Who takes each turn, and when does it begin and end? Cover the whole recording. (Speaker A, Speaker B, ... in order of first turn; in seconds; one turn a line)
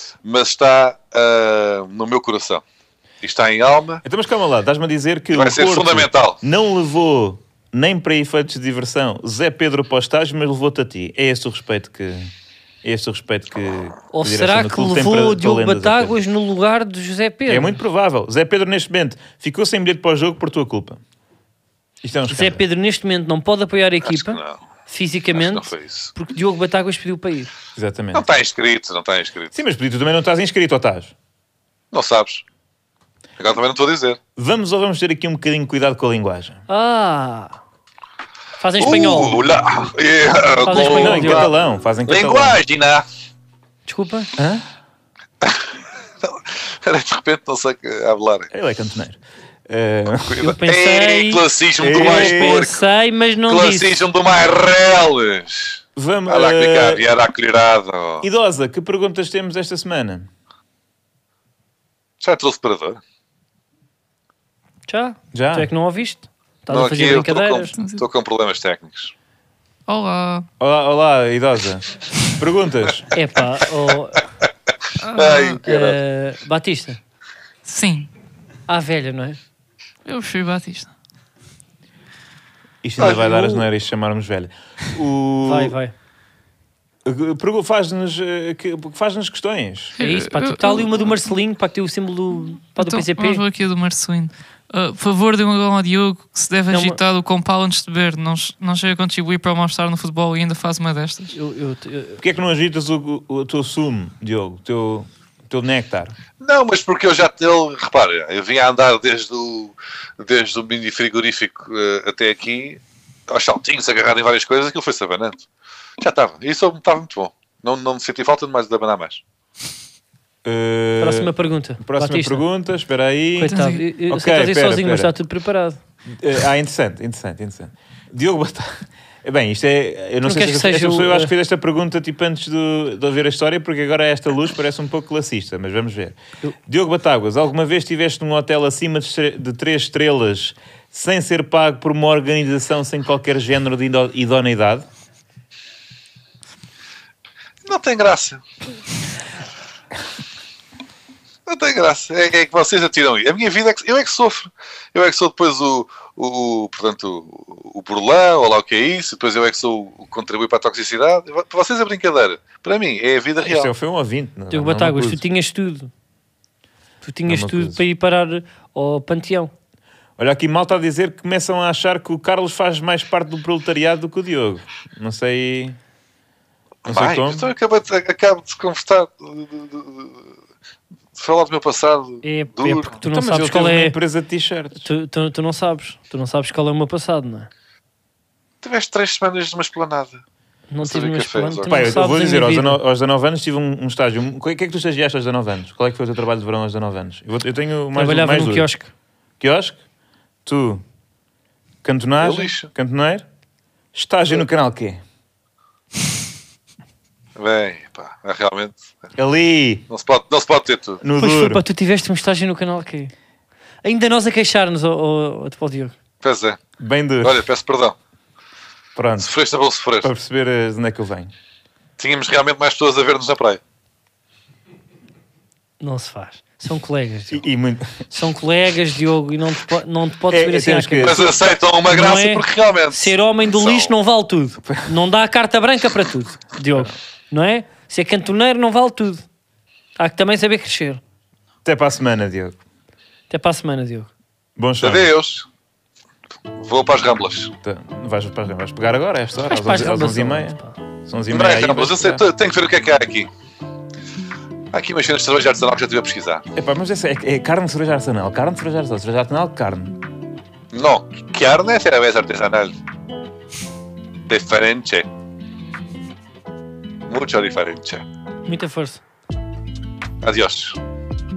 Speaker A: 0.2-2.6
Speaker A: 3.2-4.0
Speaker B: 4.0-12.3
Speaker A: 5.3-6.4
Speaker B: 12.8-16.2
Speaker C: 14.1-17.8
Speaker B: 17.5-21.0
Speaker B: 22.0-22.6
Speaker C: 22.3-27.5
Speaker A: 24.1-24.6
Speaker A: 25.3-26.1
Speaker B: 27.8-28.3
Speaker A: 28.1-29.6
Speaker B: 29.5-31.1
Speaker A: 31.9-32.4
Speaker A: 33.4-34.2
Speaker B: 34.4-36.6
Speaker C: 36.7-37.6
Speaker C: 38.6-39.5
Speaker A: 38.8-41.5
Speaker C: 40.6-41.5
Speaker B: 40.7-42.6
Speaker A: 42.0-43.0
Speaker C: 43.9-44.3
Speaker B: 44.4-44.7
Speaker A: 46.2-48.5
Speaker B: 48.5-50.4
Speaker A: 50.3-52.9
Speaker C: 50.4-53.9
Speaker B: 51.8-52.6
Speaker A: 53.5-58.3
Speaker B: 56.0-57.1
Speaker B: 58.2-60.3
Speaker A: 62.2-63.0
Speaker C: 64.9-67.8
Speaker B: 65.3-65.7
Speaker A: 66.7-69.1
Speaker D: 67.8-68.0
Speaker D: 69.9-70.5
Speaker B: 70.6-73.1
Speaker C: 73.1-74.2
Speaker D: 75.0-75.6
Speaker A: 75.2-76.0
Speaker C: 75.6-77.0
Speaker D: 77.7-78.1
Speaker C: 78.7-79.4
Speaker D: 80.0-80.9
Speaker B: 82.8-85.8
Speaker C: 83.0-83.6
Speaker C: 85.4-85.9
Speaker B: 87.0-90.0
Speaker D: 90.0-90.9
Speaker C: 90.0-93.4
Speaker D: 92.8-101.3
Speaker C: 96.7-97.0
Speaker C: 101.3-102.2
Speaker B: 102.2-106.2
Speaker A: 106.4-115.5
Speaker A: 116.0-119.2
Speaker B: 120.5-125.1
Speaker C: 121.0-122.5
Speaker C: 123.4-125.8
Speaker D: 123.5-123.8
Speaker B: 126.0-144.9
Speaker C: 130.2-131.3
Speaker A: 147.7-148.4
Speaker A: 151.5-163.7
Speaker B: 163.5-165.2
Speaker C: 164.5-165.9
Speaker C: 167.0-169.5
Speaker B: 167.3-167.8
Speaker B: 170.2-175.8
Speaker A: 176.8-180.3
Speaker B: 176.9-177.5
Speaker A: 181.2-183.0
Speaker C: 182.2-183.9
Speaker B: 183.1-184.9
Speaker C: 184.8-187.5
Speaker A: 188.6-190.2
Speaker C: 190.7-192.8
Speaker A: 190.8-191.9
Speaker B: 191.7-198.7
Speaker C: 197.9-198.9
Speaker B: 199.4-199.8
Speaker B: 200.4-200.8
Speaker B: 201.8-203.2
Speaker A: 202.2-202.7
Speaker B: 203.9-205.0
Speaker A: 207.4-209.1
Speaker B: 209.2-209.9
Speaker A: 209.9-211.0
Speaker B: 211.0-211.6
Speaker C: 211.2-213.1
Speaker C: 213.8-215.9
Speaker A: 216.2-216.6
Speaker B: 216.8-217.4
Speaker A: 217.2-218.0
Speaker B: 219.0-219.3
Speaker A: 219.2-220.1
Speaker B: 220.0-221.3
Speaker A: 222.0-223.6
Speaker C: 225.8-227.4
Speaker B: 227.3-228.0
Speaker C: 228.1-239.2
Speaker B: 230.3-231.3
Speaker A: 231.0-233.9
Speaker C: 240.0-241.0
Speaker B: 241.7-242.6
Speaker C: 243.3-244.1
Speaker B: 244.6-245.1
Speaker A: 244.8-245.5
Speaker A: 246.6-247.5
Speaker B: 247.6-252.2
Speaker C: 249.5-250.8
Speaker A: 251.3-253.3
Speaker A: 254.7-256.4
Speaker B: 256.6-260.0
Speaker A: 260.7-262.8
Speaker A: 264.3-265.1
Speaker A: 267.1-268.0
Speaker C: 268.4-269.0
Speaker A: 270.2-270.8